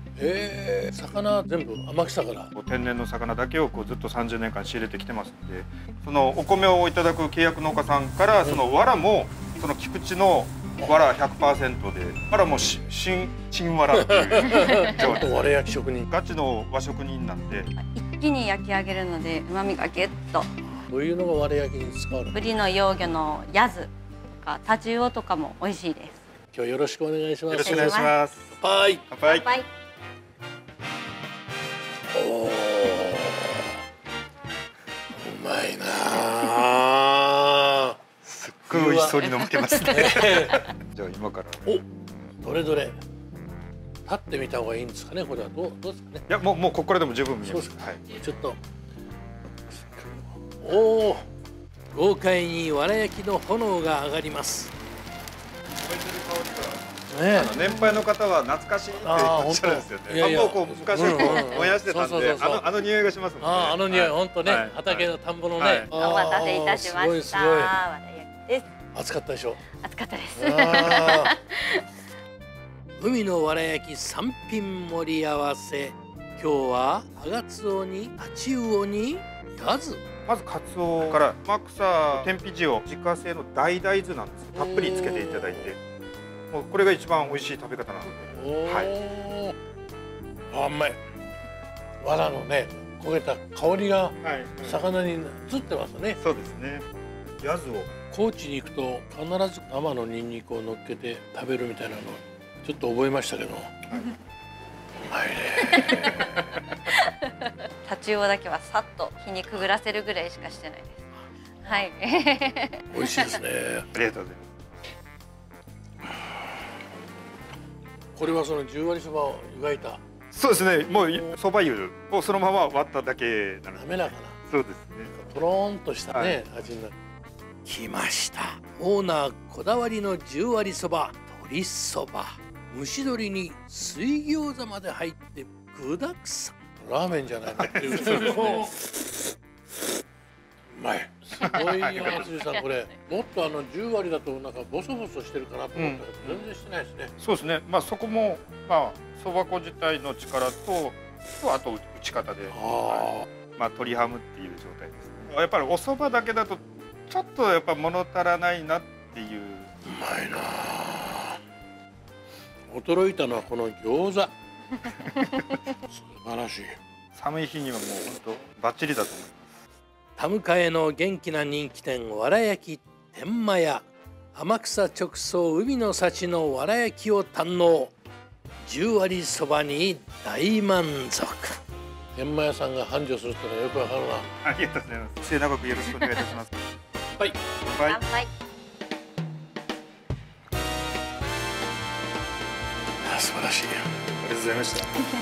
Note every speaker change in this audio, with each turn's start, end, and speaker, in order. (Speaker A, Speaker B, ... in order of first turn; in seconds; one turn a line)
Speaker A: 0.2-2.5
Speaker B: 2.5-15.4
Speaker A: 13.9-16.1
Speaker C: 14.5-15.1
Speaker B: 16.1-17.7
Speaker C: 17.8-20.5
Speaker A: 20.8-22.5
Speaker C: 22.3-26.2
Speaker A: 26.5-28.0
Speaker B: 27.5-28.6
Speaker C: 27.6-28.2
Speaker A: 28.6-29.1
Speaker B: 29.1-29.5
Speaker C: 29.2-29.7
Speaker A: 32.1-33.8
Speaker A: 35.2-38.0
Speaker B: 38.2-41.6
Speaker A: 38.7-39.2
Speaker A: 39.9-40.6
Speaker A: 42.4-43.0
Speaker A: 44.1-46.2
Speaker B: 46.3-48.1
Speaker A: 47.4-48.6
Speaker A: 49.7-51.3
Speaker A: 51.9-54.7
Speaker B: 55.8-65.9
Speaker A: 57.1-58.0
Speaker A: 59.0-62.7
Speaker A: 63.4-67.8
Speaker C: 65.9-68.7
Speaker A: 68.9-69.6
Speaker C: 69.8-71.9
Speaker A: 70.4-71.3
Speaker A: 73.0-80.0
Speaker B: 80.3-85.8
Speaker A: 84.5-85.8
Speaker B: 86.5-88.9
Speaker A: 88.2-89.5
Speaker A: 90.5-91.0
Speaker A: 92.0-96.2
Speaker B: 94.2-94.8
Speaker B: 96.2-96.9
Speaker B: 97.4-97.9
Speaker A: 98.1-103.8
Speaker B: 103.9-104.1
Speaker A: 105.0-106.4
Speaker C: 105.7-106.1
Speaker C: 106.8-111.0
Speaker C: 111.6-113.4
Speaker A: 112.9-113.9
Speaker B: 113.9-114.5
Speaker A: 118.2-120.0
Speaker B: 120.3-125.1
Speaker A: 123.8-124.4
Speaker A: 125.1-127.0
Speaker B: 126.1-126.4
Speaker A: 127.7-139.1
Speaker B: 137.6-138.7
Speaker A: 140.7-147.1
Speaker B: 141.4-142.2
Speaker B: 145.8-146.4
Speaker B: 147.2-159.7
Speaker A: 152.5-153.2
Speaker A: 159.8-161.4
Speaker A: 162.7-164.3
Speaker B: 164.9-165.4
Speaker A: 165.9-166.8
Speaker B: 167.1-169.5
Speaker A: 170.2-177.9
Speaker A: 178.6-181.6
Speaker A: 182.2-184.3
Speaker B: 184.4-186.6
Speaker B: 187.6-188.0
Speaker C: 187.8-188.3
Speaker A: 193.0-193.9
Speaker B: 194.2-194.9